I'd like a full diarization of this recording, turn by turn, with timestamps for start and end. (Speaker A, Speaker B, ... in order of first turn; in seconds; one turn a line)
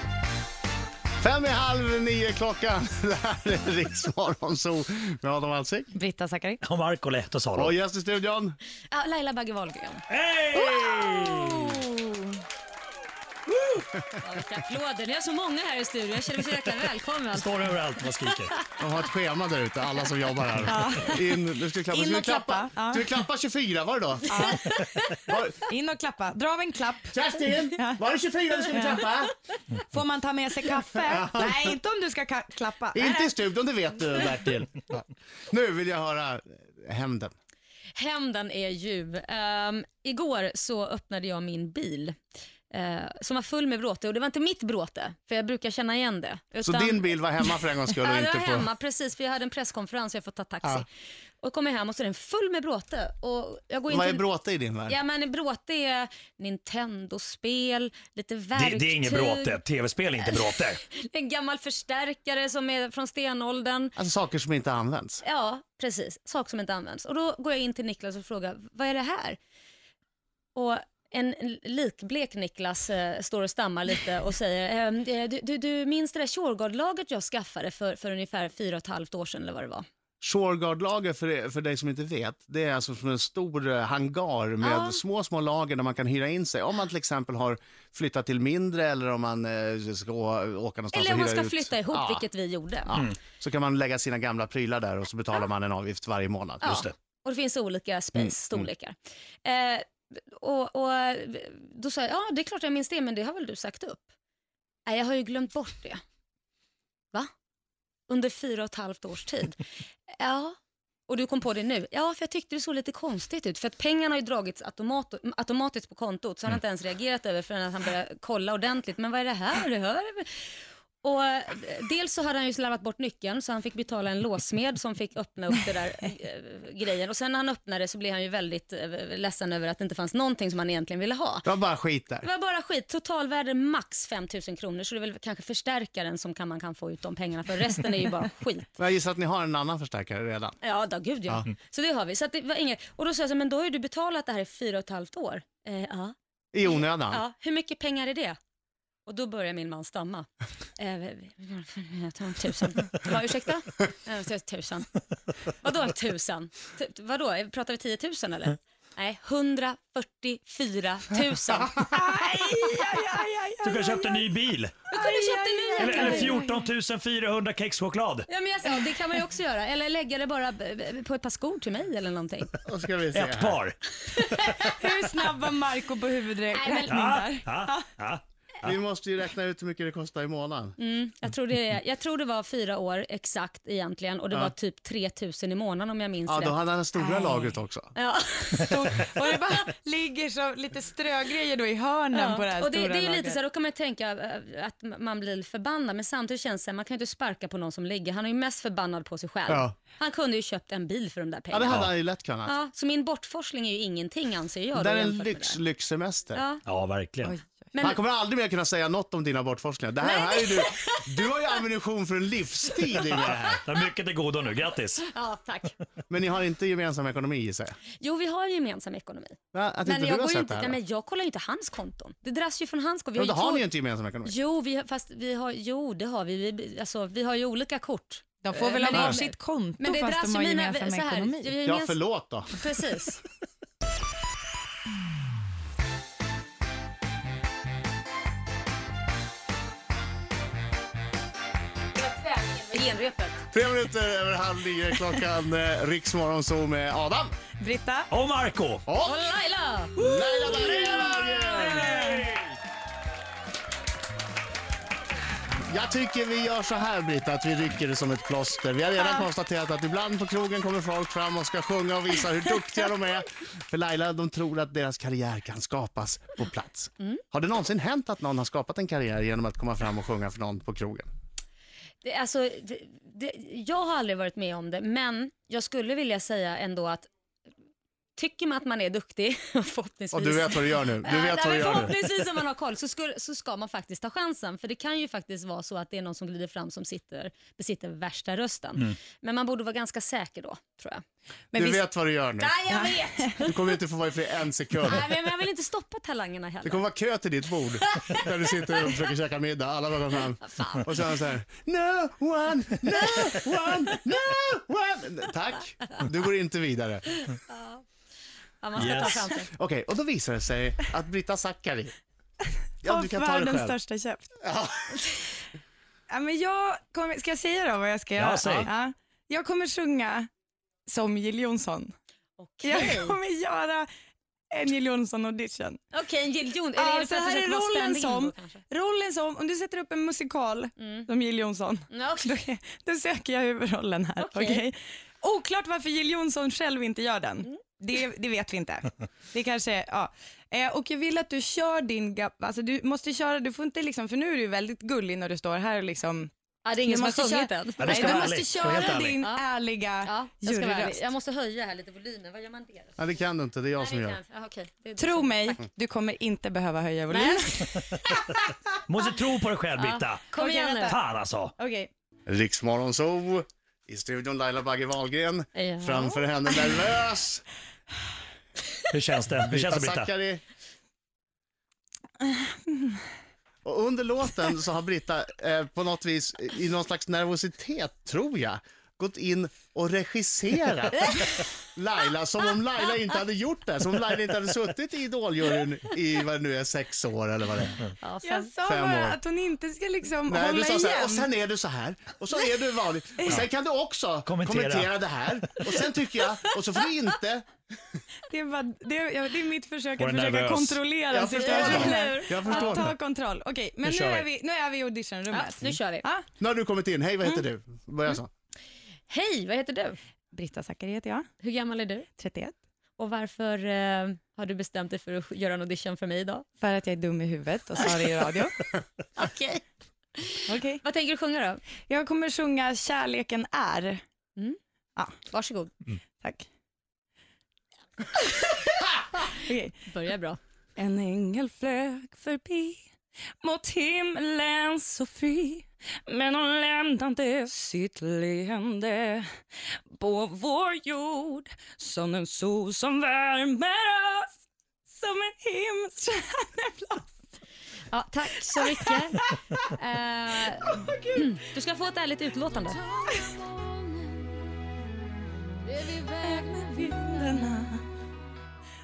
Speaker A: 1.2-5.9
Speaker B: 5.9-6.6
Speaker C: 6.6-7.7
Speaker A: 7.5-8.6
Speaker D: 8.9-10.0
Speaker C: 10.1-11.8
Speaker B: 10.5-12.4
Speaker D: 14.2-17.6
Speaker C: 17.3-18.5
Speaker A: 18.8-24.4
Speaker B: 20.6-23.0
Speaker B: 24.3-24.7
Speaker D: 24.4-25.0
Speaker A: 25.3-25.6
Speaker B: 25.7-27.1
Speaker A: 27.1-29.3
Speaker B: 27.8-28.0
Speaker B: 28.6-29.0
Speaker B: 29.9-33.2
Speaker A: 31.1-31.6
Speaker A: 32.9-37.3
Speaker D: 38.0-42.2
Speaker D: 42.7-47.1
Speaker A: 46.6-48.7
Speaker D: 48.0-50.9
Speaker D: 51.4-54.2
Speaker A: 53.9-55.0
Speaker D: 54.9-59.6
Speaker C: 58.5-60.8
Speaker D: 60.4-63.9
Speaker A: 64.0-65.2
Speaker D: 65.2-69.4
Speaker D: 70.5-79.8
Speaker A: 80.2-92.3
Speaker D: 84.6-85.0
Speaker D: 90.9-92.9
Speaker A: 92.8-96.8
Speaker D: 96.6-104.1
Speaker C: 96.6-96.9
Speaker A: 98.2-98.7
Speaker D: 104.8-106.0
Speaker D: 108.1-109.6
Speaker D: 110.1-110.6
Speaker D: 111.1-120.4
Speaker D: 121.0-131.4
Speaker A: 131.4-132.3
Speaker D: 132.2-138.7
Speaker A: 138.8-140.6
Speaker D: 140.6-148.4
Speaker A: 146.5-147.2
Speaker D: 149.1-150.3
Speaker D: 150.8-154.9
Speaker D: 155.6-161.8
Speaker B: 161.8-164.4
Speaker C: 163.6-164.8
Speaker D: 164.9-166.3
Speaker B: 164.9-166.7
Speaker C: 165.8-168.3
Speaker D: 168.3-172.5
Speaker A: 172.6-173.6
Speaker C: 173.1-174.6
Speaker D: 174.2-174.5
Speaker B: 174.7-177.8
Speaker D: 176.5-177.1
Speaker C: 176.9-178.8
Speaker A: 178.6-180.8
Speaker D: 180.8-186.6
Speaker A: 186.2-187.9
Speaker B: 187.0-187.5
Speaker D: 187.9-188.8
Speaker B: 188.6-193.4
Speaker D: 192.1-201.9
Speaker A: 199.5-199.8
Speaker A: 201.5-202.5
Speaker D: 202.4-205.6
Speaker A: 204.7-206.4
Speaker D: 206.3-206.6
Speaker C: 206.6-207.3
Speaker D: 207.7-208.0
Speaker A: 207.8-213.6
Speaker D: 210.0-211.1
Speaker C: 213.6-215.1
Speaker D: 215.0-215.7
Speaker A: 216.1-217.8
Speaker D: 218.0-223.7
Speaker A: 219.5-220.8
Speaker A: 223.2-224.3
Speaker D: 224.2-232.0
Speaker B: 228.4-231.5
Speaker A: 228.9-229.2
Speaker A: 231.6-232.6
Speaker D: 232.5-233.2
Speaker D: 241.9-243.4
Speaker A: 243.5-247.3
Speaker B: 247.6-248.1
Speaker C: 248.1-248.8
Speaker A: 248.9-249.3
Speaker D: 249.0-251.1
Speaker B: 250.0-251.1
Speaker A: 250.0-252.0
Speaker C: 251.5-252.5
Speaker A: 255.7-271.1
Speaker D: 272.0-277.1
Speaker D: 278.1-291.8
Speaker A: 280.1-281.9
Speaker A: 291.5-292.5
Speaker D: 292.4-293.5
Speaker B: 292.7-293.4
Speaker A: 293.4-295.1
Speaker D: 294.8-296.8
Speaker A: 296.6-307.1
Speaker D: 297.9-298.3
Speaker D: 300.4-300.9
Speaker D: 307.5-307.8
Speaker D: 308.6-309.5
Speaker C: 308.8-309.2
Speaker A: 309.5-311.9
Speaker A: 312.8-313.8
Speaker B: 312.8-314.4
Speaker A: 314.4-315.0
Speaker B: 316.1-320.3
Speaker C: 318.2-318.7
Speaker B: 320.9-321.9
Speaker D: 322.4-323.1
Speaker B: 322.6-323.9
Speaker B: 324.5-325.8
Speaker D: 325.9-328.6
Speaker B: 326.8-346.3
Speaker D: 330.8-331.1
Speaker D: 331.9-332.3
Speaker D: 334.2-334.6
Speaker D: 346.6-349.5
Speaker B: 346.8-351.1
Speaker C: 347.8-349.2
Speaker D: 350.0-352.9
Speaker A: 353.0-354.2
Speaker D: 353.8-355.6
Speaker B: 355.0-357.7
Speaker D: 357.1-358.4
Speaker C: 358.9-360.4
Speaker D: 359.8-361.0
Speaker B: 360.3-361.0
Speaker C: 360.9-361.5
Speaker B: 361.6-361.9
Speaker A: 362.3-367.4
Speaker D: 365.5-366.2
Speaker C: 368.9-370.1
Speaker A: 369.4-370.4
Speaker B: 372.2-372.9
Speaker A: 373.6-387.8
Speaker D: 381.1-381.4
Speaker D: 388.0-388.5
Speaker B: 388.2-391.3
Speaker A: 388.6-389.2
Speaker A: 390.3-397.4
Speaker C: 394.2-394.9
Speaker B: 398.3-406.2
Speaker C: 400.0-400.8
Speaker A: 401.1-402.9
Speaker D: 401.3-402.8
Speaker C: 403.8-404.3
Speaker D: 405.3-406.1
Speaker A: 406.4-408.3
Speaker D: 409.1-410.0
Speaker B: 410.3-411.3
Speaker D: 411.4-412.1
Speaker B: 412.2-412.5
Speaker D: 413.0-416.4
Speaker B: 416.6-418.5
Speaker D: 419.2-419.6
Speaker D: 420.2-421.6
Speaker B: 420.5-420.8
Speaker B: 421.9-424.0
Speaker D: 425.3-425.7
Speaker B: 426.2-426.5
Speaker B: 429.2-429.7
Speaker D: 429.9-430.4
Speaker B: 430.8-432.8
Speaker B: 433.4-439.3
Speaker B: 440.0-444.3
Speaker B: 444.9-447.1
Speaker D: 447.9-452.8
Speaker B: 448.6-449.7
Speaker B: 450.4-451.3
Speaker B: 452.9-453.9
Speaker B: 455.6-457.8